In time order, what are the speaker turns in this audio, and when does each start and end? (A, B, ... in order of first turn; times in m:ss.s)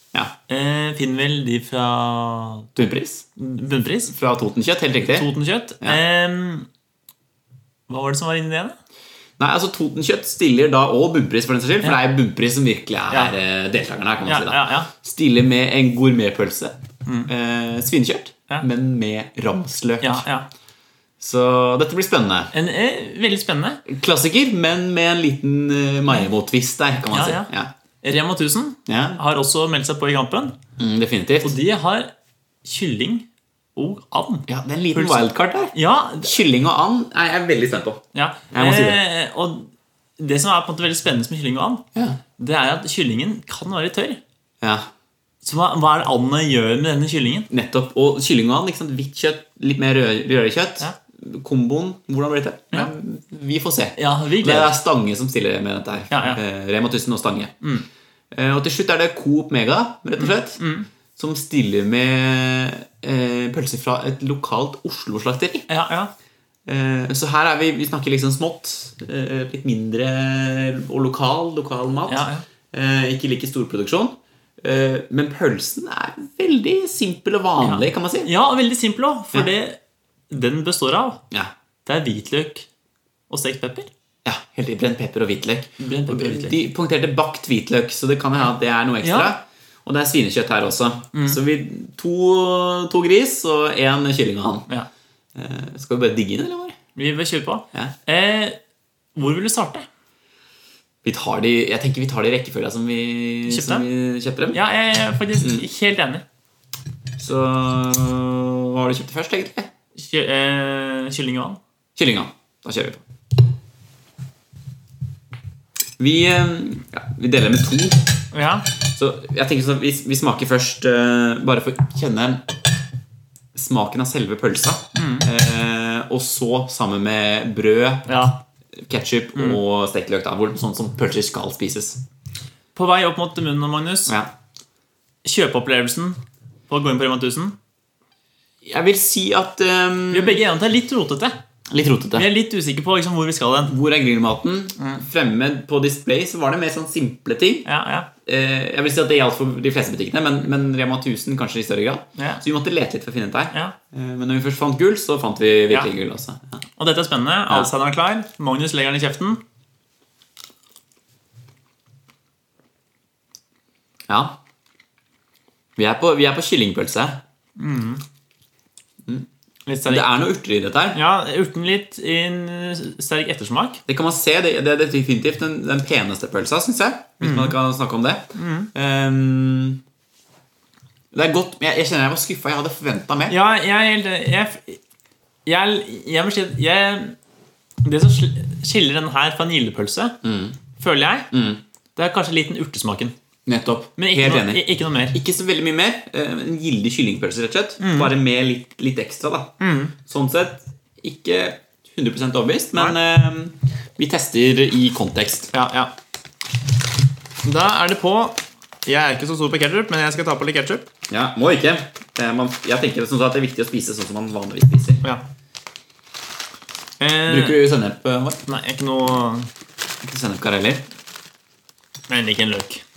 0:00.5-0:02.7 A
0:02.7-0:03.2 B
0:03.4-0:04.1 A
0:04.1-0:05.3 B
0:05.1-0:06.7 A
0:07.9-0:08.8 A
0:09.4-0:20.2 B
0:14.2-0:14.9 A
0:20.0-0:20.5 A
0:21.2-0:22.5 B
0:22.5-0:23.8 A
0:23.8-0:27.7 B
0:27.1-0:27.5 A
0:28.0-0:30.6 A
0:28.9-0:29.2 B
0:30.8-0:31.6 B
0:31.4-0:32.1 A
0:32.6-0:36.3 A
0:34.5-0:39.0 B
0:38.1-0:41.8 A
0:41.9-0:42.2 B
0:42.4-0:44.2 A
0:44.6-0:44.9 B
0:45.4-0:47.5 A
0:47.5-0:57.5 B
0:54.0-0:54.7 A
0:56.1-0:56.4 A
0:58.3-1:00.6 B
1:00.2-1:00.9 A
1:01.2-1:05.7 B
1:05.7-1:06.1 A
1:06.7-1:18.3 B
1:12.1-1:12.4 A
1:17.6-1:19.8 A
1:20.3-1:21.2 A
1:21.8-1:22.7 A
1:23.3-1:23.9 A
1:24.2-1:34.7 B
1:25.8-1:26.6 A
1:29.0-1:29.3 A
1:31.1-1:31.4 A
1:35.3-1:36.8 B
1:37.0-1:38.6 A
1:39.2-1:39.9 A
1:41.0-1:44.6 B
1:43.5-1:43.8 A
1:44.5-1:46.2 A
1:47.2-1:49.7 B
1:50.0-1:51.6 A
1:52.0-1:53.0 B
1:56.0-1:58.2 B
1:58.3-1:58.7 A
1:58.9-2:02.4 B
2:03.5-2:08.1 B
2:04.9-2:05.3 A
2:08.1-2:08.4 A
2:08.8-2:12.0 B
2:09.3-2:09.6 A
2:12.7-2:14.1 A
2:15.2-2:16.2 A
2:16.7-2:17.6 A
2:18.6-2:20.4 B
2:20.1-2:21.4 A
2:21.7-2:22.3 B
2:22.1-2:23.7 A
2:23.7-2:27.7 B
2:27.6-2:28.1 A
2:28.2-2:36.6 B
2:32.2-2:32.4 A
2:36.8-2:39.4 A
2:44.1-2:44.4 B
2:45.8-2:47.2 B
2:47.6-2:48.0 A
2:49.6-2:50.1 A
2:49.8-2:51.0 B
2:50.9-2:53.8 A
2:53.9-2:59.8 B
2:57.2-2:57.6 A
2:58.3-2:58.7 A
3:01.1-3:03.3 B
3:03.3-3:04.8 A
3:05.4-3:07.2 A
3:07.8-3:10.2 A
3:10.2-3:10.6 B
3:10.8-3:11.3 A
3:11.3-3:11.6 B
3:12.0-3:13.1 A
3:13.5-3:25.5 B
3:14.0-3:15.2 A
3:17.8-3:18.1 A
3:19.6-3:19.9 A
3:25.5-3:25.9 A
3:27.4-3:30.9 A
3:31.1-3:35.0 B
3:37.0-3:37.6 A
3:37.2-3:38.4 B
3:38.5-3:39.5 A
3:40.0-3:40.8 B
3:42.1-3:42.8 A